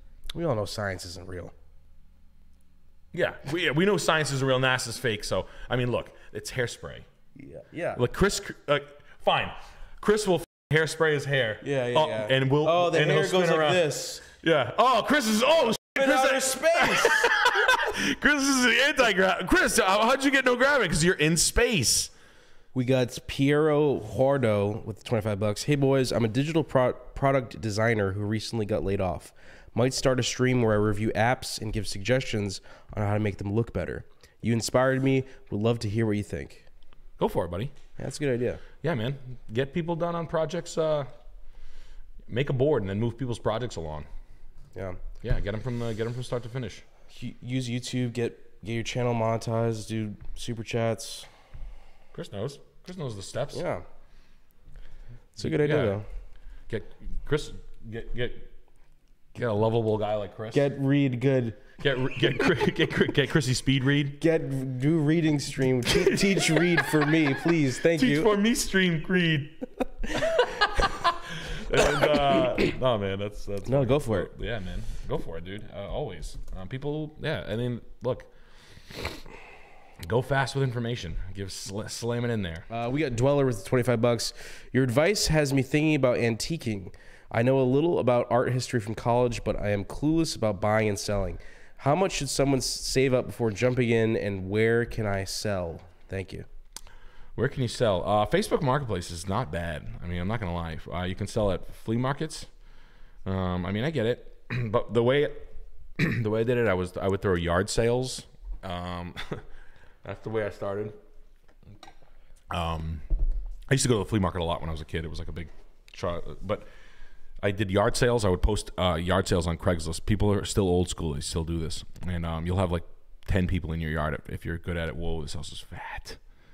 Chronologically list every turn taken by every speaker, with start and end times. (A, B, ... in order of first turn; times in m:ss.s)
0:00.3-0:01.5 A
0:03.1-0:07.1 B
0:07.4-0:08.0 A
0:07.9-0:22.1 B
0:11.6-0:14.2 A
0:16.0-0:17.3 A
0:22.7-0:36.6 A
0:37.2-0:37.7 B
0:38.0-0:38.6 A
0:38.8-0:41.1 B
0:42.3-0:44.1 B
0:44.7-0:45.0 A
0:45.2-0:46.8 B
0:47.1-0:51.3 A
0:52.1-0:53.6 B
0:53.5-0:53.8 A
0:55.4-0:56.0 A
0:55.4-0:56.0 B
0:56.7-0:58.5 B
0:59.3-1:00.7 B
1:00.5-1:01.6 A
1:01.8-1:04.2 B
1:04.2-1:08.4 A
1:06.0-1:06.9 B
1:07.8-1:18.3 B
1:13.6-1:14.3 A
1:20.0-1:22.7 B
1:22.7-1:36.4 A
1:37.4-1:42.5 B
1:43.2-1:45.5 B
1:46.0-1:49.4 B
1:50.0-1:50.9 B
1:52.5-1:53.0 B
1:53.7-1:56.7 B
1:57.4-2:06.2 B